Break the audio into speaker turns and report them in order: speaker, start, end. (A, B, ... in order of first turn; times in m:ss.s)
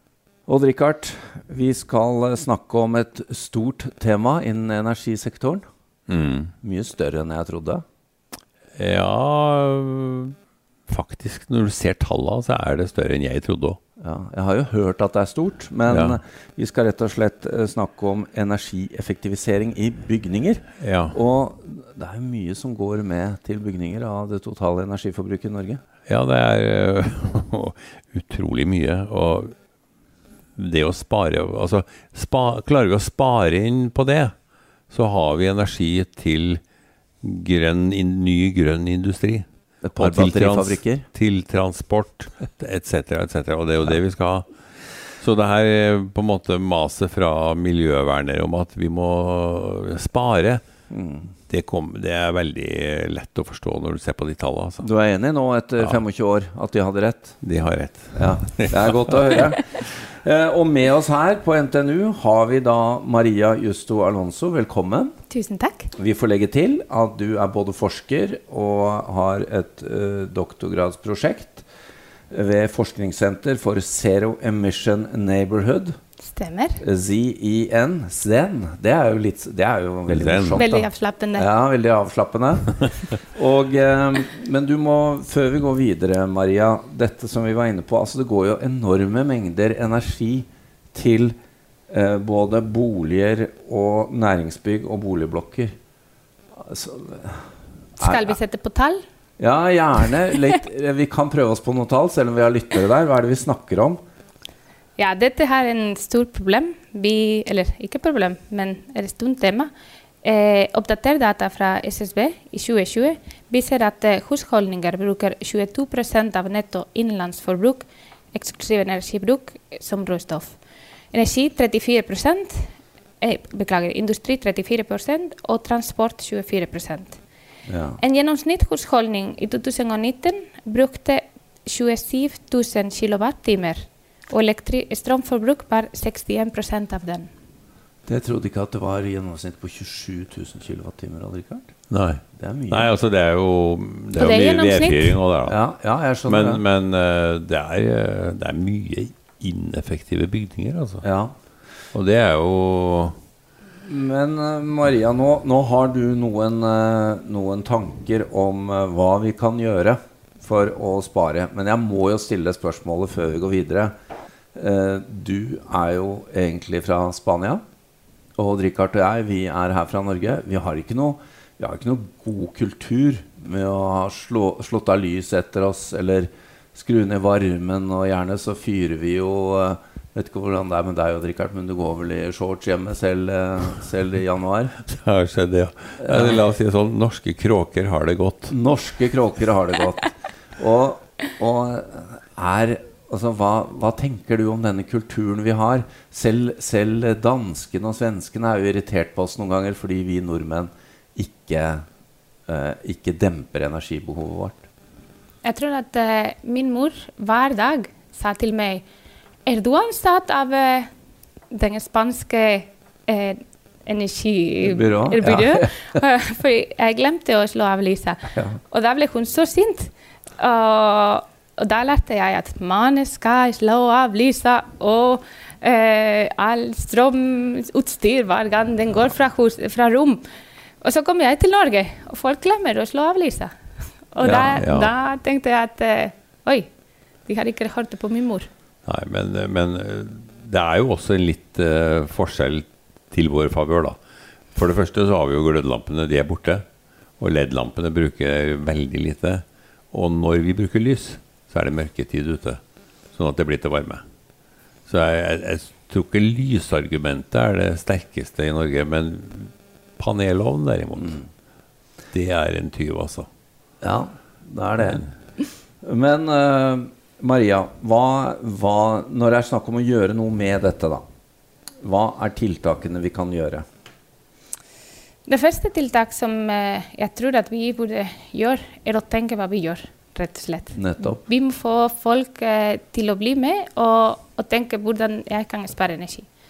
0:00.5-0:05.6 A
0:06.1-0:06.5 B
0:06.6-0:07.8 A
0:08.8-0:10.3 B
0:10.9-0:13.8 B
0:14.0-0:25.8 A
0:15.9-0:16.2 B
0:20.8-0:21.2 B
0:26.1-0:29.5 B
0:30.6-0:34.3 B
0:34.9-0:36.6 B
0:37.2-0:39.4 B
0:39.8-0:41.1 A
0:40.0-0:44.5 B
0:45.1-0:50.6 B
0:50.9-0:51.3 A
0:51.5-0:54.8 B
0:54.8-0:57.4 A
0:57.4-0:59.4 B
0:58.1-1:05.1 A
1:05.3-1:05.9 C
1:06.0-1:11.6 A
1:12.3-1:16.0 A
1:16.2-1:16.8 C
1:16.8-1:31.3 A
1:20.1-1:20.6 B
1:20.6-1:21.5 C
1:31.9-1:35.7 A
1:36.6-1:37.5 A
1:38.0-1:39.0 C
1:38.0-1:38.4 A
1:39.4-1:44.0 A
1:45.0-1:49.7 C
1:50.2-2:00.6 C
2:01.1-2:07.2 C
2:07.7-2:08.0 A
2:08.0-2:17.3 C
2:18.0-2:21.7 A
2:21.9-2:25.6 B
2:22.3-2:22.9 A
2:24.1-2:25.2 C
2:25.4-2:26.6 A
2:26.2-2:31.0 B
2:31.0-2:31.3 A
2:31.9-2:33.2 B
2:33.8-2:43.9 A
2:44.5-2:47.6 A
2:48.4-3:04.8 A
3:04.9-3:08.5 B
3:06.0-3:06.4 A
3:08.5-3:21.8 A
3:22.5-3:24.6 A
3:25.4-3:28.8 C
3:29.4-3:30.9 C
3:31.5-3:50.2 C
3:34.6-3:35.9 A
3:50.8-3:53.5 C
3:54.1-3:56.7 C
3:54.2-3:54.6 A
3:54.6-3:54.9 B
3:57.2-3:58.5 C
3:58.8-4:04.0 B
4:04.5-4:06.6 B
4:07.2-4:12.6 B
4:13.1-4:14.0 B
4:14.9-4:21.2 B
4:21.0-4:21.2 A
4:22.1-4:23.3 B
4:23.8-4:25.0 A
4:24.8-4:25.1 B
4:25.8-4:31.0 A
4:31.8-4:33.6 A
4:35.2-4:46.3 C
4:40.7-4:41.2 A